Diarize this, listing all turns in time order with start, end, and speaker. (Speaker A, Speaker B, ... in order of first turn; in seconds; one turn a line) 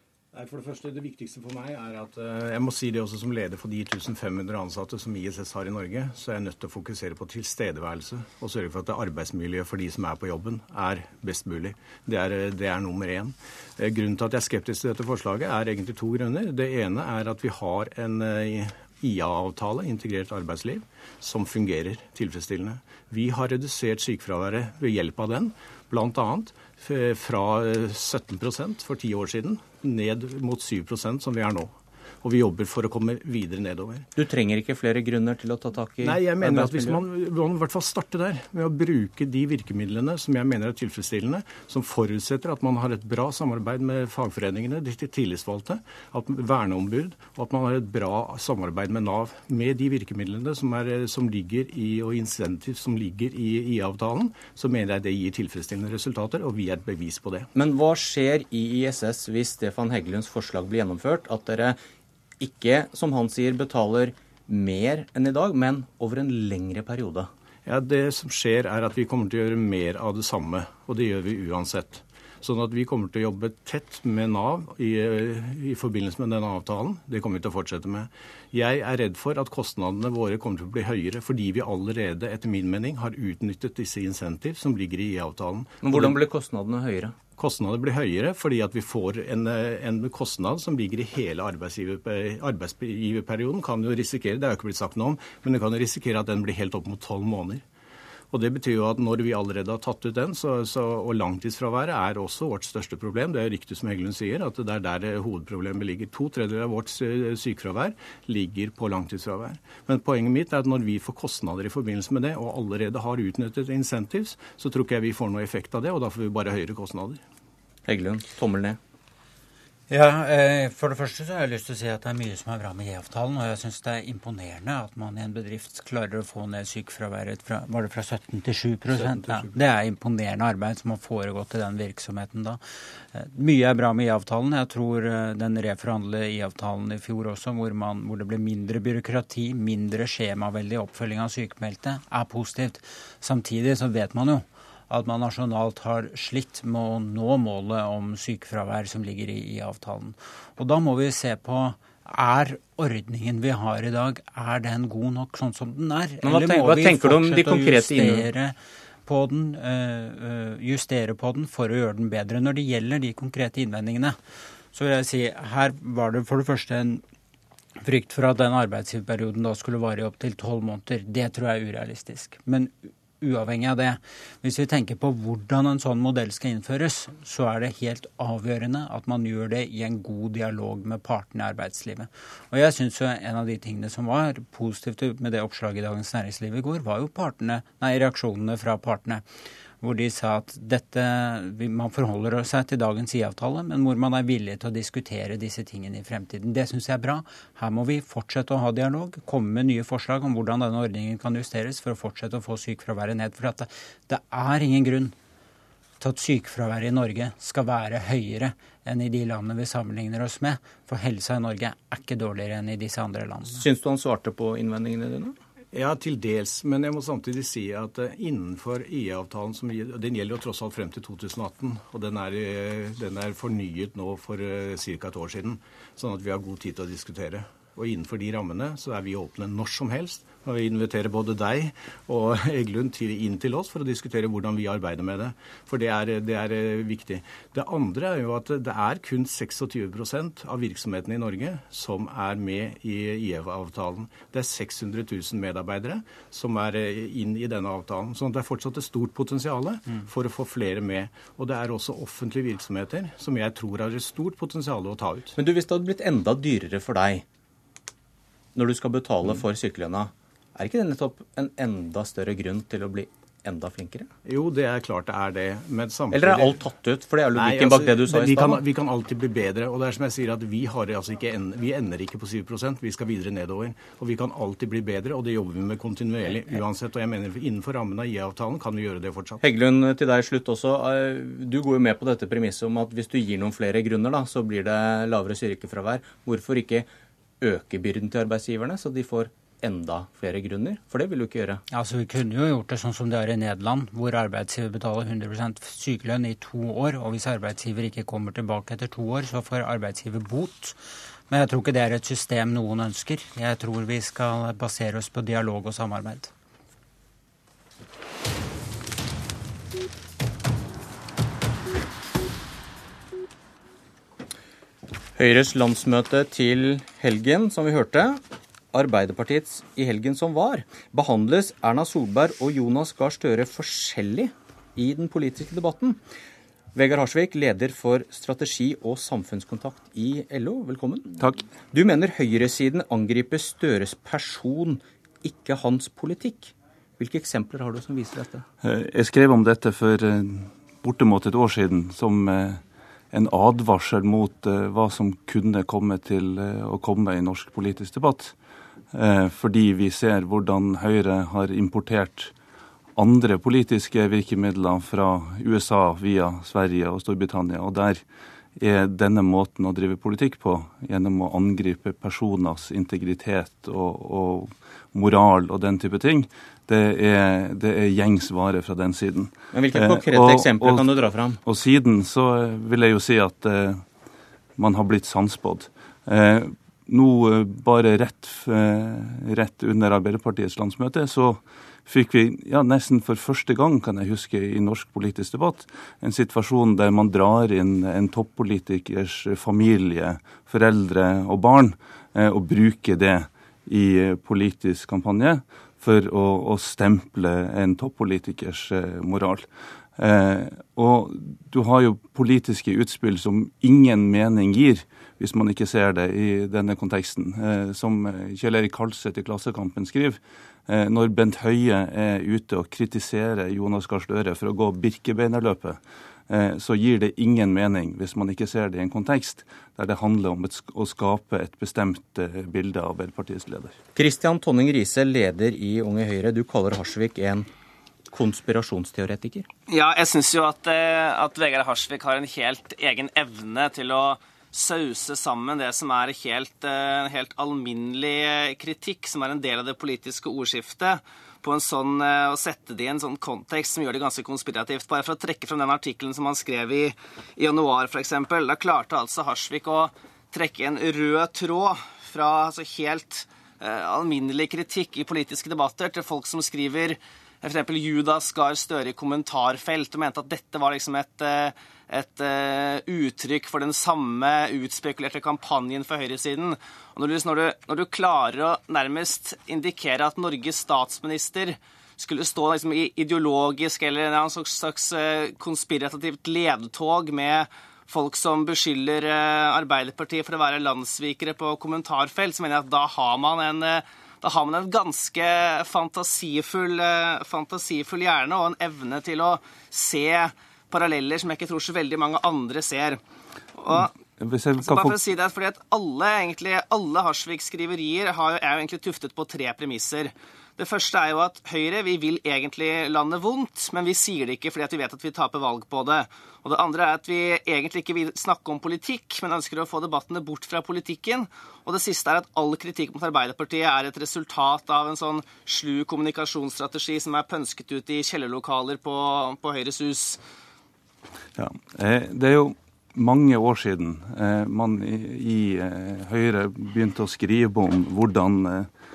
Speaker A: 0.3-34.1
Speaker B: 34.2-37.0
Speaker A: 36.0-57.5
Speaker B: 57.5-61.8
Speaker B: 62.4-67.3
Speaker A: 67.7-86.1
Speaker B: 85.8-87.2
Speaker A: 87.4-97.6
Speaker A: 98.3-117.2
Speaker B: 117.9-118.8
Speaker C: 119.9-132.6
Speaker C: 133.1-164.2
Speaker B: 156.2-158.3
Speaker C: 164.7-167.0
Speaker C: 167.8-189.2
Speaker C: 189.8-205.2
Speaker C: 206.0-213.6
Speaker B: 213.5-215.3
Speaker A: 215.7-255.3
Speaker B: 255.4-257.2
Speaker B: 258.6-264.1
Speaker A: 264.3-266.6
Speaker B: 266.1-268.6
Speaker A: 267.4-279.4
Speaker B: 279.4-286.9
Speaker B: 287.4-291.6
Speaker C: 291.7-300.8
Speaker C: 301.3-306.3
Speaker B: 315.2-318.2
Speaker B: 318.7-326.0
Speaker B: 326.8-338.4
Speaker D: 338.6-342.6
Speaker D: 343.1-348.4
Speaker D: 348.9-352.3
Speaker D: 353.0-358.0
Speaker D: 358.6-373.9
Speaker B: 369.5-371.4
Speaker D: 374.6-399.5
Speaker D: 400.0-415.8
Speaker D: 416.3-423.8
Speaker B: 424.0-427.5
Speaker B: 428.1-429.5
Speaker E: 429.7-493.0
Speaker E: 493.6-493.9
Speaker D: 493.7-495.0
Speaker E: 494.6-520.2
Speaker D: 521.4-528.7